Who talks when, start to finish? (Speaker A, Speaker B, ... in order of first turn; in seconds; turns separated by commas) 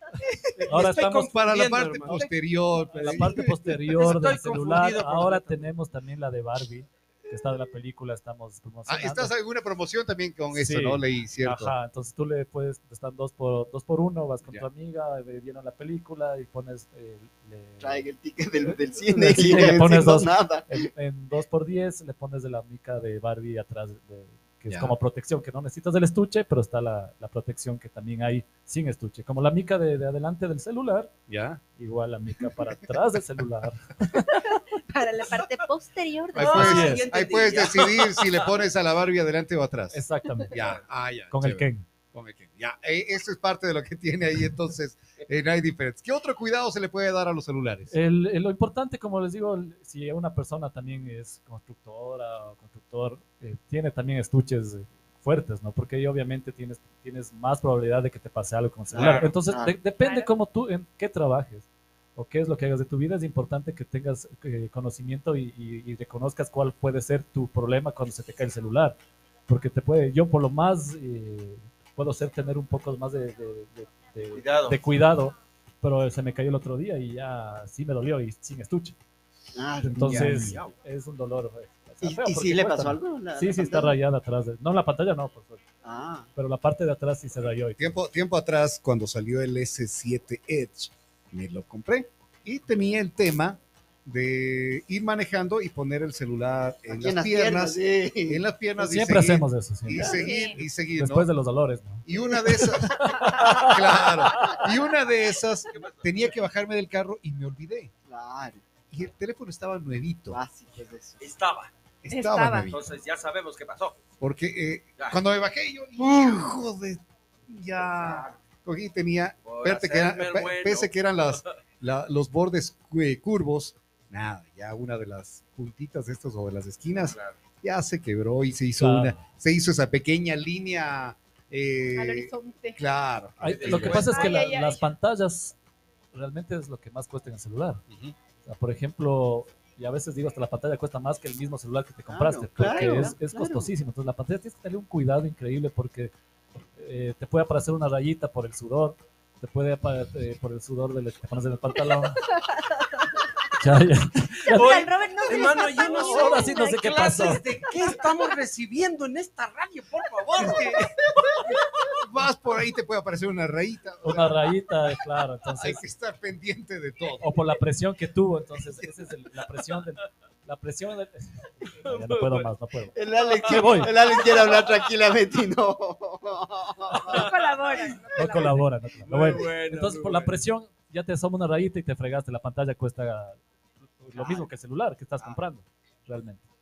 Speaker A: 0.2-0.6, Speaker B: 0.6-1.4, Speaker C: 0.7-2.2, Speaker D: 0.8-3.7, Speaker B: 2.9-9.3, Speaker C: 3.9-5.6, Speaker D: 8.9-11.7, Speaker B: 10.5-18.1, Speaker A: 17.8-20.8, Speaker B: 19.1-31.1, Speaker D: 24.7-24.9, Speaker D: 31.3-31.6, Speaker B: 31.8-34.4, Speaker E: 34.2-36.9, Speaker D: 36.3-47.9, Speaker C: 36.4-38.5, Speaker B: 36.5-37.0, Speaker B: 39.9-40.8, Speaker B: 41.3-41.8, Speaker B: 47.9-68.9, Speaker C: 58.9-59.3, Speaker A: 58.9-59.8, Speaker E: 60.0-60.3, Speaker B: 69.5-79.0, Speaker C: 74.3-74.8, Speaker A: 79.5-80.5, Speaker B: 79.8-85.6, Speaker D: 80.0-80.6, Speaker C: 80.3-80.7, Speaker A: 82.0-84.0, Speaker A: 85.8-86.3, Speaker B: 86.3-88.0, Speaker D: 87.4-101.3, Speaker A: 96.9-98.4, Speaker B: 98.8-100.2, Speaker E: 100.1-100.6, Speaker B: 101.0-104.6, Speaker D: 102.0-107.9, Speaker C: 105.7-106.3, Speaker A: 108.1-108.6, Speaker D: 108.9-110.4, Speaker A: 110.3-111.2, Speaker C: 111.2-111.7, Speaker D: 112.0-112.8, Speaker E: 112.1-112.7, Speaker C: 112.7-114.0, Speaker D: 114.2-134.1, Speaker A: 116.0-116.5, Speaker C: 118.0-118.3, Speaker C: 119.4-121.5, Speaker C: 127.0-127.3, Speaker B: 128.8-129.2, Speaker E: 131.9-132.8, Speaker B: 133.4-135.6, Speaker C: 133.4-134.4, Speaker E: 133.9-134.8, Speaker B: 136.1-137.8, Speaker B: 138.4-146.1, Speaker A: 142.1-143.7, Speaker E: 142.6-143.1, Speaker B: 146.8-152.3, Speaker E: 152.3-153.3, Speaker B: 153.5-154.9, Speaker E: 154.5-158.1, Speaker C: 154.5-160.7, Speaker B: 155.6-157.6, Speaker D: 160.4-160.9, Speaker D: 161.9-164.4, Speaker B: 164.0-165.8, Speaker D: 165.6-167.3, Speaker B: 167.2-173.9, Speaker C: 171.8-172.5, Speaker A: 172.9-177.3, Speaker C: 173.2-174.8, Speaker E: 177.0-178.6, Speaker C: 177.1-178.3, Speaker B: 178.1-186.4, Speaker C: 179.0-180.3, Speaker A: 184.1-184.5